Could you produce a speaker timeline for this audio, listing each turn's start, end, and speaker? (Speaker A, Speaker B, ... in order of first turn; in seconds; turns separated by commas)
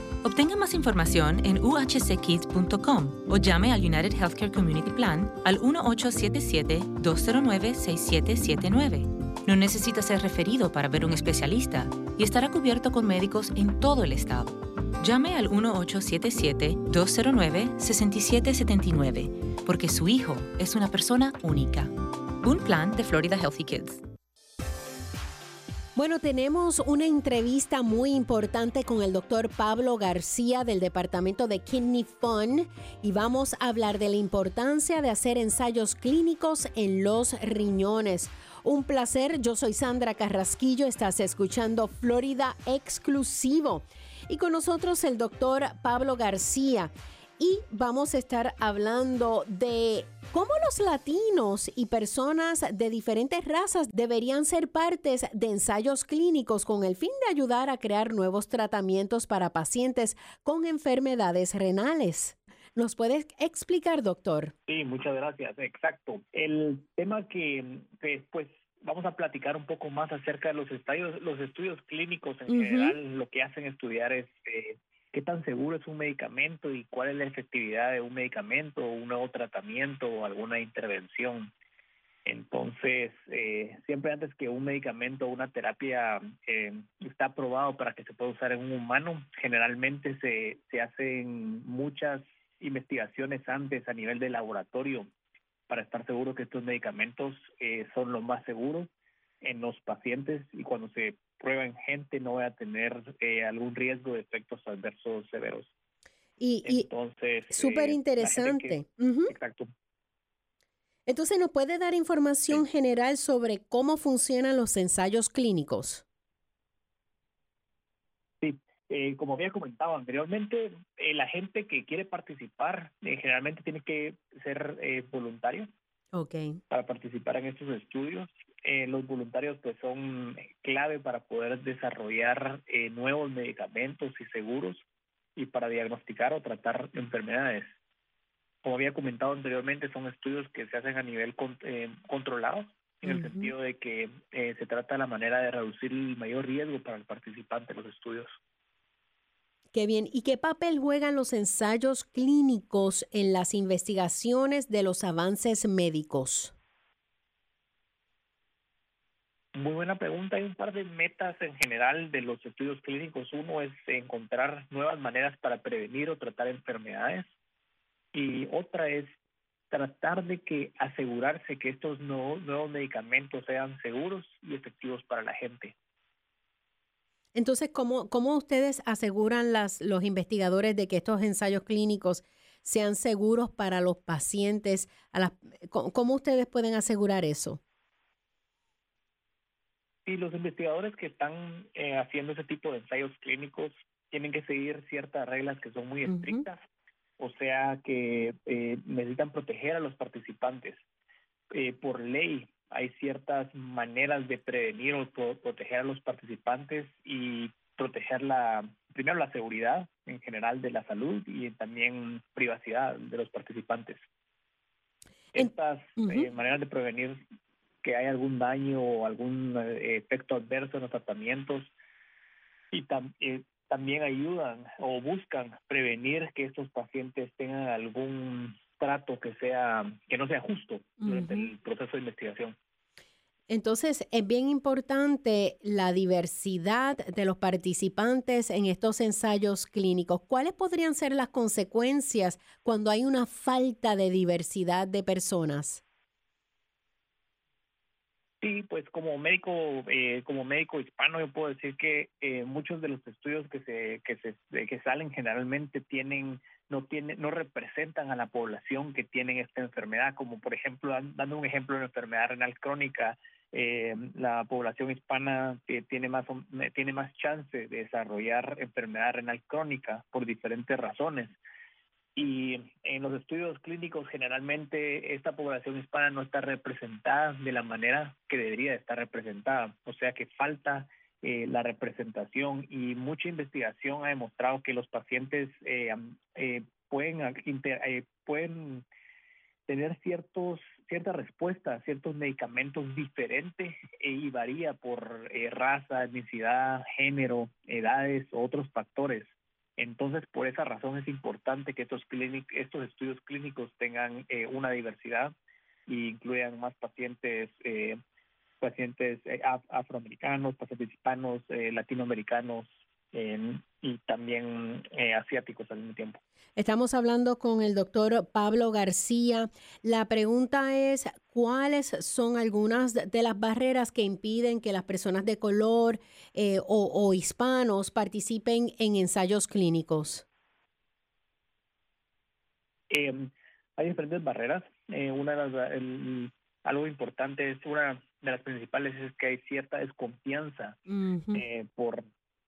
Speaker A: 0.2-24.0, Speaker B: 25.9-64.5, Speaker C: 64.7-81.5, Speaker B: 72.5-73.0, Speaker C: 82.2-95.1, Speaker C: 95.7-98.9, Speaker C: 99.4-105.7, Speaker B: 106.4-106.9, Speaker C: 106.6-109.7, Speaker B: 107.5-109.3, Speaker B: 111.1-116.0, Speaker C: 118.4-125.7, Speaker B: 126.1-126.6, Speaker C: 126.7-134.8, Speaker C: 135.3-137.7, Speaker C: 138.6-148.3, Speaker B: 143.1-143.5, Speaker B: 149.7-156.5, Speaker C: 159.5-167.3, Speaker C: 168.1-169.1, Speaker C: 169.7-175.7, Speaker B: 177.3-187.6, Speaker C: 190.1-196.6, Speaker B: 196.1-196.4, Speaker C: 197.2-200.8, Speaker C: 201.5-214.0, Speaker C: 215.3-217.2, Speaker B: 215.4-216.3, Speaker C: 217.8-221.7, Speaker C: 222.7-232.6, Speaker B: 231.0-231.5, Speaker B: 233.5-245.8, Speaker C: 248.4-271.4, Speaker C: 272.1-288.8, Speaker C: 289.7-305.3, Speaker C: 305.9-308.0, Speaker C: 308.6-316.2, Speaker B: 316.6-330.2, Speaker C: 332.9-340.8, Speaker B: 340.9-341.4, Speaker C: 341.3-342.0